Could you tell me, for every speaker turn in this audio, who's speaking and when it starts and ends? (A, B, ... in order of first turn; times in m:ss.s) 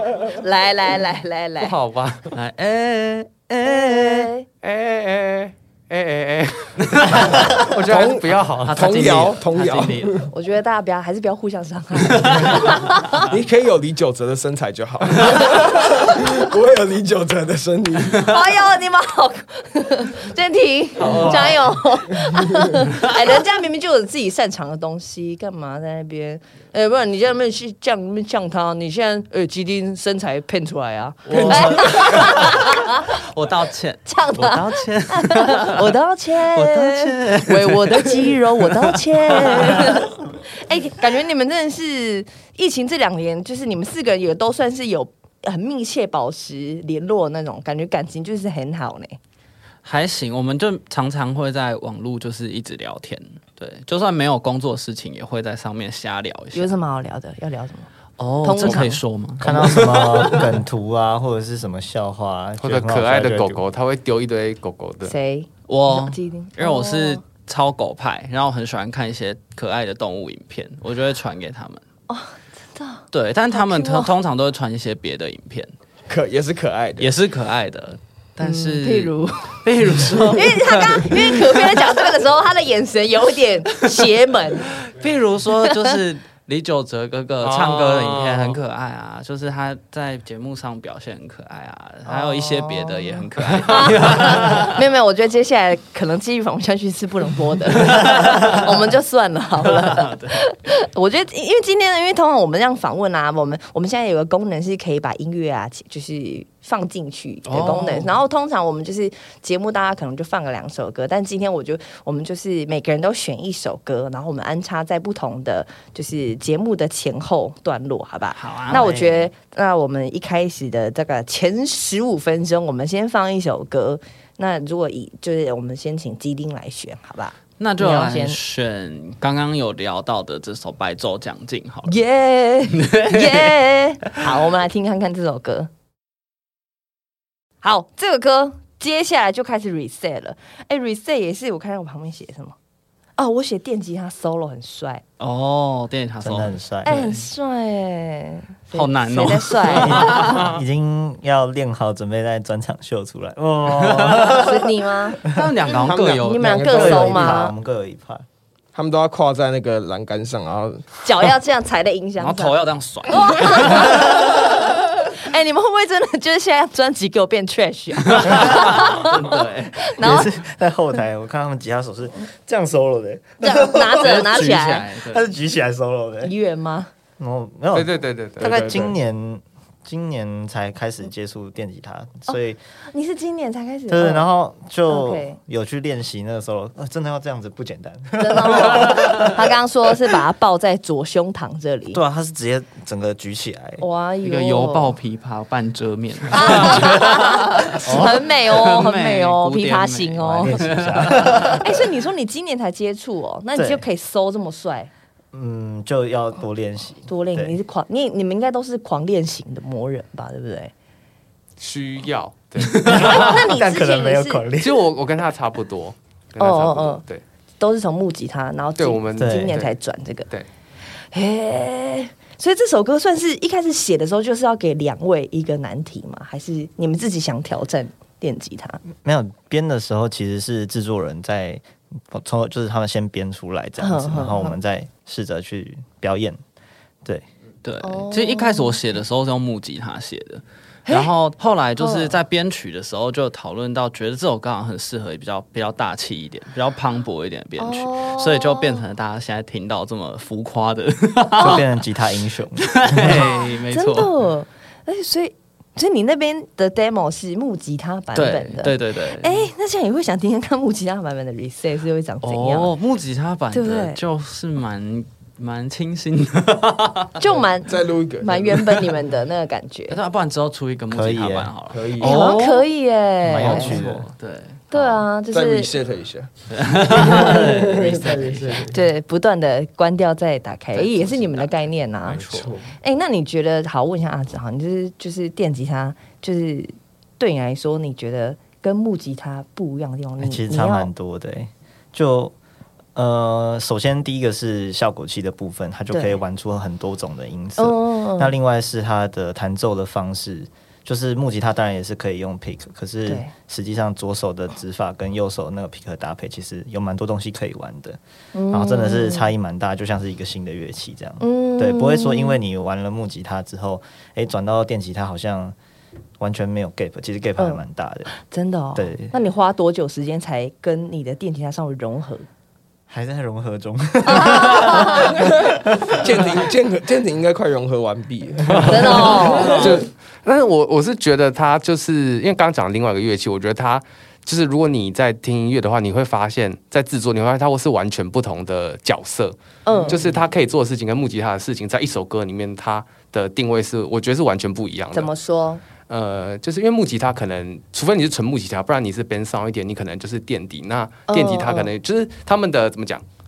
0:00.4-0:01.7 A
0:01.6-0:02.3 B
0:02.3-0:04.3 C
0:03.6-0:04.5 A
0:04.6-0:08.8 B
0:06.9-0:07.6 C
0:07.8-0:10.3 D
0:08.6-0:10.3 C
0:10.3-0:13.3 A
0:12.2-0:12.6 C
0:12.4-0:18.3 D
0:18.2-0:33.2 A
0:21.0-0:21.6 D
0:21.1-0:21.4 C
0:22.2-0:22.5 D
0:31.3-0:36.0 C
0:31.3-0:32.4 D
0:34.1-0:49.2 A
0:36.5-0:40.1 C
0:49.8-0:56.8 C
0:56.5-0:57.9 A
0:58.2-1:00.6 C
0:58.4-0:59.0 A
0:59.4-1:03.6 E
1:02.6-1:05.2 B
1:05.0-1:07.2 A
1:05.7-1:11.8 C
1:12.1-1:14.1 A
1:13.1-1:15.7 C
1:16.1-1:17.1 D
1:17.0-1:21.9 C
1:18.4-1:24.8 A
1:24.8-1:34.8 C
1:25.7-1:25.9 A
1:27.4-1:28.6 B
1:32.1-2:08.4 A
1:37.8-1:38.7 C
1:39.6-1:40.4 C
1:47.5-1:48.2 C
1:58.4-1:59.1 C
1:58.7-1:59.2 E
2:07.6-2:12.0 C
2:11.9-2:15.7 A
2:12.7-2:13.6 C
2:17.6-2:22.6 A
2:23.2-2:25.0 A
2:25.2-2:27.2 C
2:26.2-2:26.9 E
2:26.8-2:30.4 A
2:28.7-2:30.5 C
2:29.7-2:34.7 E
2:33.7-2:34.5 C
2:34.3-2:35.3 A
2:35.2-2:35.5 E
2:35.2-2:36.7 C
2:35.7-2:37.4 D
2:36.2-2:37.5 A
2:36.7-2:38.2 E
2:38.7-2:40.9 D
2:41.0-2:42.6 A
2:42.2-2:44.4 C
2:43.1-2:50.3 A
2:48.1-2:50.2 C
2:50.0-2:54.5 E
2:53.4-2:54.9 A
2:54.0-2:55.3 C
2:55.0-2:56.3 E
2:56.2-2:56.9 A
2:57.2-3:02.6 E
2:57.7-2:58.9 B
3:02.9-3:04.3 A
3:03.9-3:09.4 E
3:04.9-3:05.4 A
3:08.2-3:12.0 A
3:08.9-3:09.2 C
3:11.9-3:13.8 E
3:13.8-3:15.0 A
3:14.2-3:21.6 C
3:16.3-3:24.9 A
3:17.8-3:18.2 E
3:20.4-3:21.7 E
3:23.6-3:23.8 E
3:25.3-3:27.6 E
3:27.1-3:30.7 A
3:31.6-3:33.1 B
3:32.6-3:33.2 C
3:32.8-3:34.9 E
3:32.9-3:34.4 A
3:34.6-3:37.2 B
3:36.4-3:37.0 A
3:37.6-3:40.3 A
3:38.8-3:39.8 B
3:39.2-3:39.6 E
3:41.1-3:48.8 A
3:49.0-3:56.4 E
3:53.8-3:54.6 A
3:57.6-4:11.7 C
3:57.8-3:58.8 A
4:00.9-4:01.1 A
4:01.8-4:02.1 A
4:07.6-4:08.8 A
4:11.4-4:13.3 E
4:12.6-4:14.1 C
4:13.0-4:22.7 A
4:18.2-4:19.4 C
4:22.2-4:27.2 C
4:23.5-4:24.0 A
4:27.2-4:30.0 A
4:27.6-4:28.7 D
4:29.9-4:32.7 C
4:30.9-4:31.5 E
4:31.7-4:32.4 D
4:32.0-4:33.8 A
4:33.2-4:34.1 E
4:33.3-4:34.6 C
4:34.7-4:35.7 A
4:35.3-4:36.3 D
4:36.5-4:38.8 C
4:36.9-4:38.7 D
4:37.0-4:38.6 E
4:38.7-4:50.9 A
4:40.7-4:42.6 C
4:42.3-4:42.6 D
4:50.2-4:52.3 E
4:53.0-5:08.0 E
4:55.9-4:56.2 A
4:57.6-4:58.3 A
5:03.1-5:03.3 A
5:08.3-5:09.3 A
5:08.5-5:15.6 E
5:11.2-5:12.4 A
5:16.2-5:18.1 E
5:17.4-5:22.3 A
5:18.8-5:19.1 E
5:22.9-5:26.2 E
5:24.1-5:25.2 A
5:25.1-5:29.9 D
5:28.6-5:29.8 A
5:29.0-5:29.8 C
5:29.5-5:45.1 B
5:39.6-5:40.0 A
5:44.9-5:45.6 A
5:45.8-5:53.0 B
5:51.1-5:51.7 A